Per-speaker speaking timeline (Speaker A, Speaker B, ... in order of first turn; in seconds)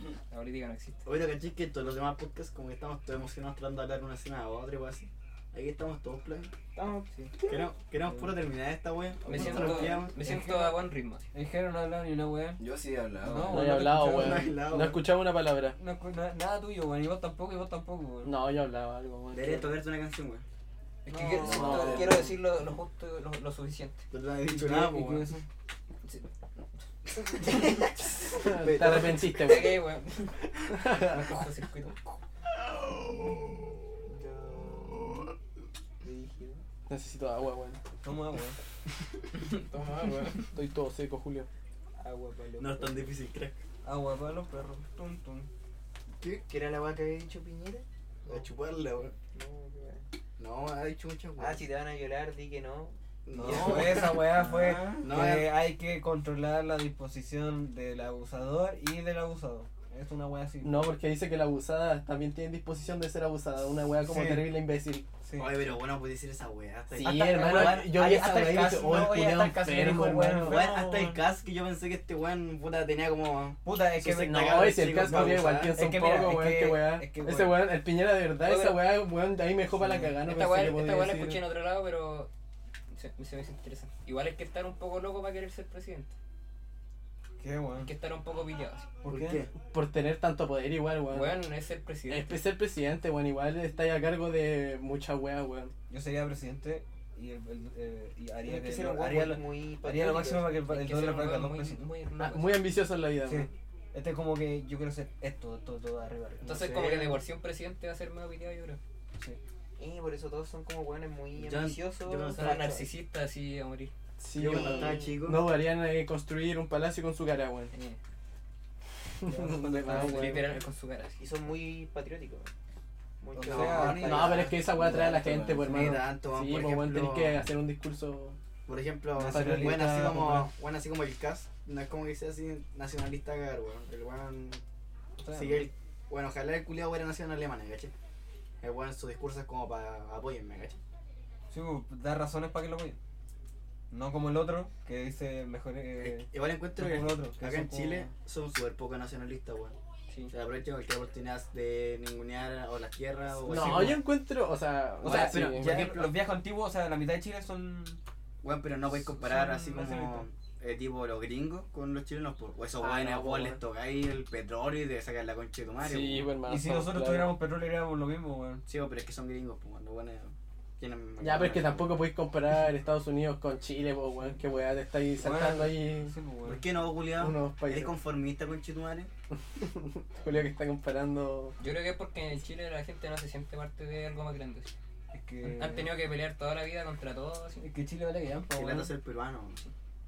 Speaker A: 0.3-1.0, 9.2-11.2, 21.1-24.0, 29.3-32.0, 39.4-40.5, 78.4-78.8, 80.2-82.3, 82.9-86.1, 87.8-88.9, 91.1-92.4, 100.7-102.7, 106.4-108.8, 112.3-113.9, 117.7-118.0, 119.9-121.2, 181.6-184.7, 185.4-187.7
Speaker B: 1.0-6.5, 7.4-10.1, 13.8-15.0, 19.3-20.4, 24.1-25.3, 27.3-27.7, 28.4-29.7, 42.6-43.6, 48.2-49.1, 50.4-51.6, 53.2-54.3, 55.0-55.5, 65.4-69.3, 70.2-75.8, 89.1-89.5, 106.4-107.2, 111.3-112.8, 114.3-115.4, 123.5-124.6, 125.6-127.3, 128.7-134.6, 135.3-137.9, 138.6-140.8, 146.0-149.7, 150.3-154.0, 155.0-156.2, 158.4-166.3, 168.7-172.1, 176.4-179.1, 188.5-189.6
Speaker C: 6.7-7.1, 34.1-35.2, 36.0-36.6, 42.0-43.0, 46.4-47.9, 49.2-50.0, 51.4-53.0, 98.4-100.6, 109.8-112.9, 114.5-115.2, 121.2-122.5, 123.2-124.5
Speaker D: 8.0-8.3, 9.3-10.8, 11.3-12.6, 13.2-14.5, 15.8-18.3, 21.1-22.2, 24.5-25.4, 38.0-38.5, 43.8-45.5, 53.3-60.8, 64.0-64.5, 65.2-65.6, 67.0-71.2, 73.6-77.7, 79.7-80.2, 87.4-87.9, 89.0-89.4, 95.9-101.8, 103.2-106.6, 119.3-120.4, 123.3-124.2, 129.1-130.5, 135.2-135.7, 141.5-143.0, 143.9-148.1, 153.4-154.0, 155.0-158.0, 158.9-160.3, 166.4-168.6, 175.2-176.6, 185.1-185.9, 187.6-188.9
Speaker E: 12.6-13.7, 21.4-22.3, 54.3-55.0, 124.6-125.7
Speaker F: 13.5-15.8, 18.2-19.7, 28.3-29.8, 30.7-31.2, 36.9-37.8, 40.4-41.5, 60.6-65.0, 66.9-70.7, 74.0-81.4, 89.6-91.4, 92.1-95.7, 102.2-103.5, 114.2-117.7, 119.2-120.5, 123.9-128.4, 129.3-130.0, 153.4-155.9, 162.8-163.6, 165.8-167.3, 171.2-176.1, 177.1-177.9, 179.5-181.6